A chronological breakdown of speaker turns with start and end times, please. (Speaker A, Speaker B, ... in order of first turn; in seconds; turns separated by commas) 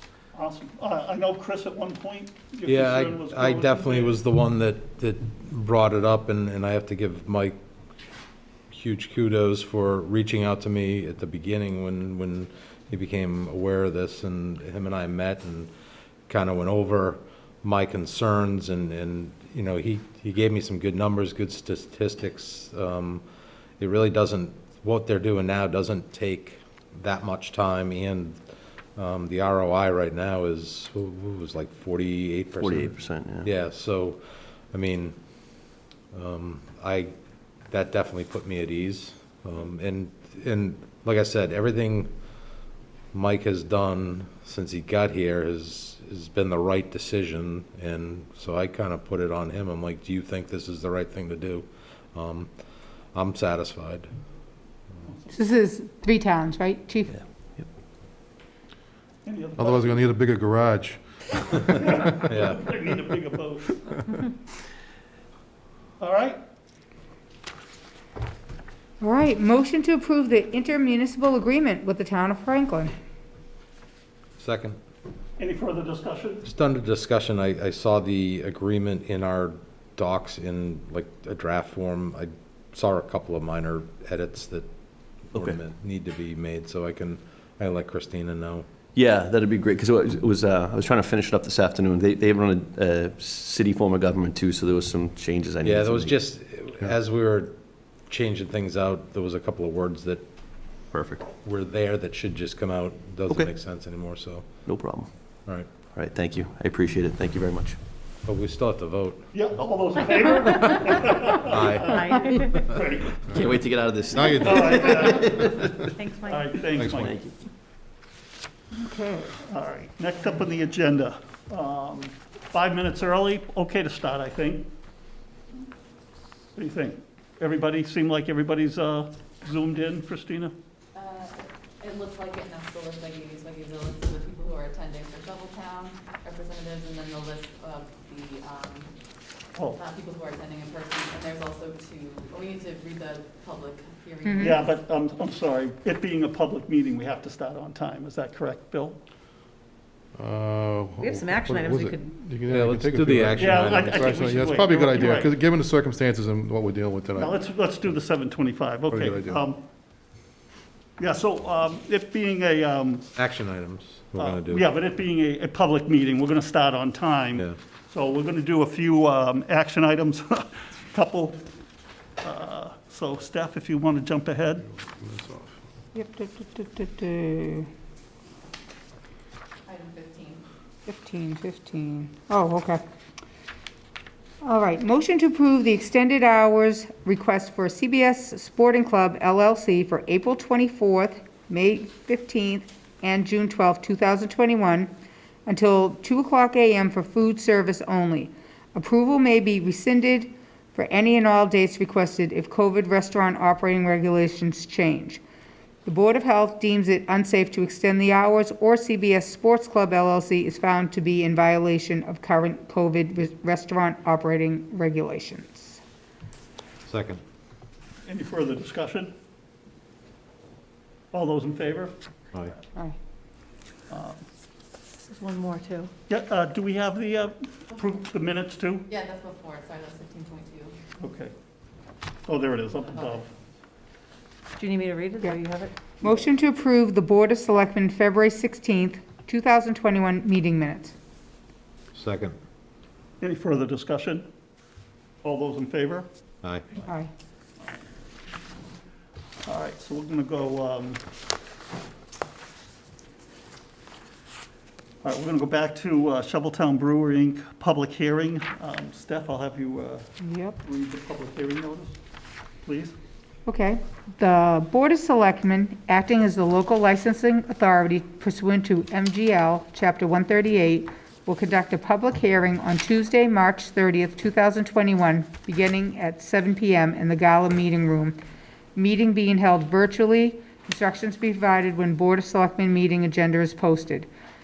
Speaker A: 0.3-4.2, Speaker B: 2.7-7.6, Speaker B: 8.7-15.7, Speaker B: 16.3-23.2, Speaker B: 23.8-28.4, Speaker B: 29.0-35.2, Speaker C: 32.6-33.5, Speaker B: 36.1-37.1, Speaker B: 37.7-42.1, Speaker B: 43.1-52.5, Speaker B: 53.1-54.1, Speaker D: 55.3-57.2, Speaker C: 57.1-57.7, Speaker A: 59.2-60.1, Speaker E: 59.6-62.3, Speaker A: 61.8-63.8, Speaker B: 62.3-62.6, Speaker A: 66.0-66.4, Speaker D: 69.0-72.9, Speaker B: 74.4-74.8, Speaker A: 75.4-76.4, Speaker B: 76.5-84.7, Speaker B: 85.3-88.7, Speaker C: 89.0-96.2, Speaker B: 95.6-97.6, Speaker B: 98.1-100.2, Speaker C: 100.9-101.3, Speaker B: 101.4-104.5, Speaker C: 104.7-105.1, Speaker C: 105.9-107.8, Speaker B: 108.3-109.3, Speaker A: 109.3-112.2, Speaker B: 111.5-111.9, Speaker F: 111.8-112.8, Speaker A: 112.7-113.2, Speaker C: 113.3-115.7, Speaker E: 114.2-115.1, Speaker A: 114.4-117.2, Speaker F: 115.9-116.7, Speaker E: 116.8-117.1, Speaker C: 116.9-117.3, Speaker D: 118.7-119.3, Speaker A: 119.5-124.7, Speaker A: 126.5-130.5, Speaker G: 130.9-138.9, Speaker G: 139.6-144.8, Speaker D: 144.2-144.6, Speaker A: 144.4-149.0, Speaker E: 150.2-157.9, Speaker F: 151.0-152.1, Speaker B: 152.5-154.0, Speaker A: 153.4-155.3, Speaker A: 157.2-159.6, Speaker E: 158.9-159.4, Speaker A: 161.0-163.1, Speaker B: 163.2-164.7, Speaker A: 164.2-171.4, Speaker A: 172.2-174.7, Speaker E: 174.8-175.6, Speaker D: 175.9-177.7, Speaker G: 179.7-180.4, Speaker D: 180.9-182.8, Speaker D: 184.4-194.9, Speaker D: 195.5-205.2, Speaker D: 205.9-215.8, Speaker B: 216.9-217.2, Speaker A: 218.0-219.1, Speaker A: 221.1-221.9, Speaker A: 223.9-224.2, Speaker F: 225.1-225.9, Speaker A: 226.1-228.8, Speaker G: 228.9-230.8, Speaker A: 231.0-231.3, Speaker A: 232.3-233.3, Speaker G: 232.8-233.3, Speaker F: 234.6-236.1, Speaker D: 236.0-240.9, Speaker B: 241.9-242.4, Speaker A: 243.2-244.3, Speaker A: 245.2-246.1, Speaker B: 246.4-246.7, Speaker A: 249.4-251.0, Speaker A: 255.0-260.1, Speaker D: 260.2-260.6, Speaker A: 260.6-262.0, Speaker A: 262.6-263.0, Speaker D: 263.5-278.2, Speaker D: 278.8-284.1